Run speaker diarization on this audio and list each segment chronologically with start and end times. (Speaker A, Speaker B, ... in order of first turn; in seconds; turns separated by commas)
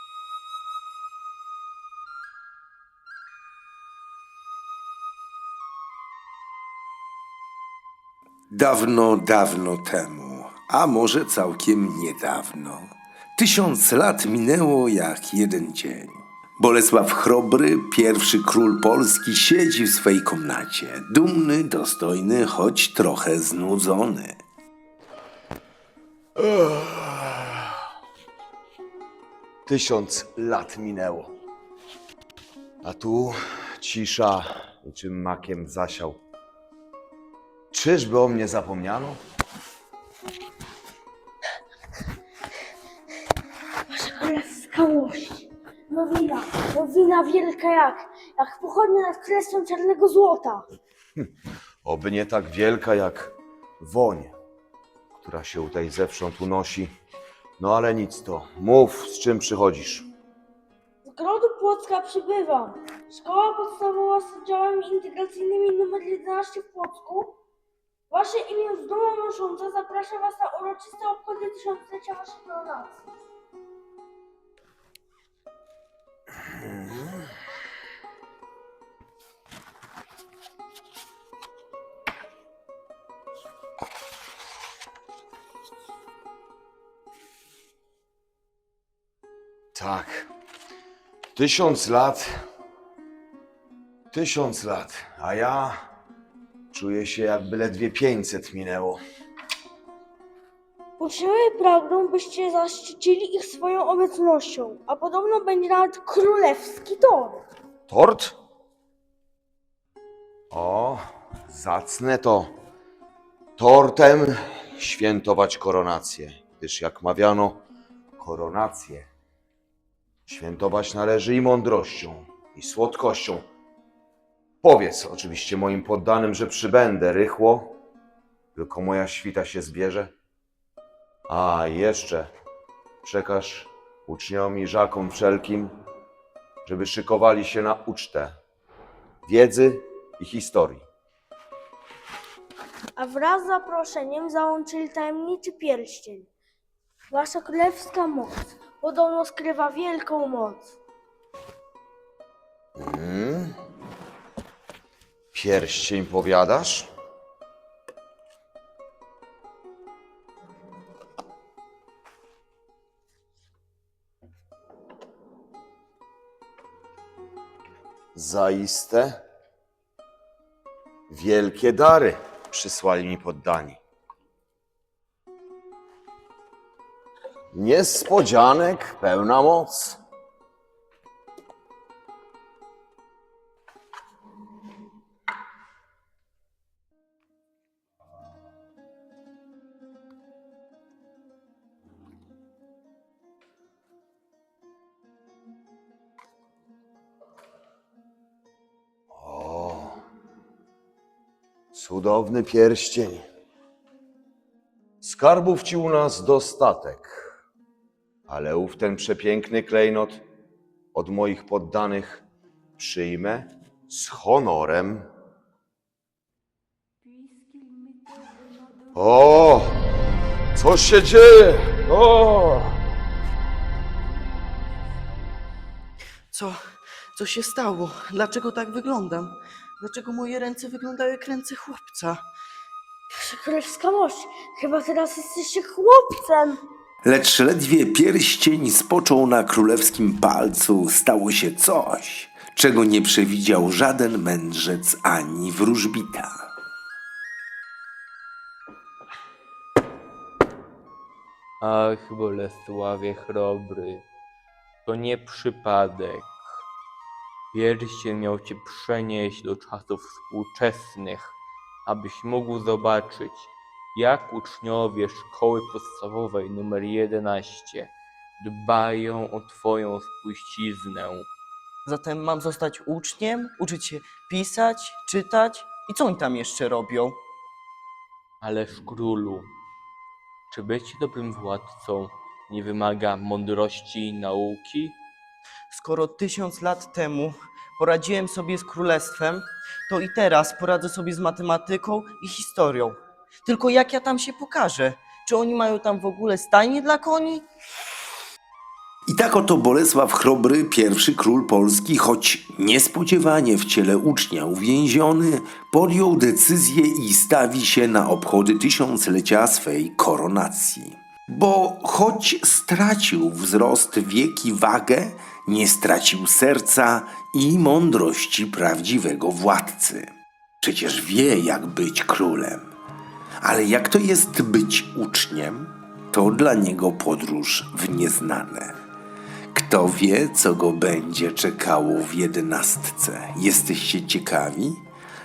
Speaker A: 8.5-24.4, Speaker B: 26.4-27.6, Speaker B: 29.6-31.3, Speaker B: 32.8-36.2, Speaker B: 37.7-39.2, Speaker C: 43.9-50.6, Speaker B: 51.8-54.3, Speaker B: 55.2-56.9, Speaker B: 57.6-60.1, Speaker C: 61.0-67.4, Speaker C: 68.1-73.0, Speaker B: 89.7-90.3, Speaker B: 91.3-92.3, Speaker B: 94.1-95.7, Speaker B: 96.7-99.0, Speaker C: 101.0-107.4, Speaker B: 107.9-108.4, Speaker B: 110.5-112.5, Speaker B: 113.6-117.6, Speaker B: 118.2-119.1, Speaker B: 120.3-123.4, Speaker B: 124.6-127.8, Speaker B: 128.5-130.1, Speaker B: 131.3-132.3, Speaker B: 133.0-135.7, Speaker B: 136.6-138.3, Speaker B: 139.2-140.8, Speaker C: 143.0-146.3, Speaker C: 147.1-150.7, Speaker B: 152.8-153.6, Speaker B: 155.3-156.9, Speaker B: 168.1-169.2, Speaker B: 171.1-173.8, Speaker B: 177.5-180.0, Speaker B: 199.1-200.0, Speaker B: 201.7-203.2, Speaker B: 205.0-207.3, Speaker B: 208.3-210.2, Speaker B: 210.9-212.2, Speaker B: 212.8-215.1, Speaker B: 218.9-219.8, Speaker B: 220.5-222.8, Speaker D: 226.3-232.2, Speaker C: 233.1-236.6, Speaker A: 237.0-246.5, Speaker E: 251.6-254.0, Speaker E: 254.8-256.3, Speaker E: 257.5-271.3, Speaker D: 271.9-277.2, Speaker E: 278.4-279.5, Speaker E: 280.5-285.0, Speaker D: 285.7-297.4, Speaker A: 299.1-320.1, Speaker A: 320.6-322.7, Speaker A: 323.4-328.8, Speaker A: 329.5-334.8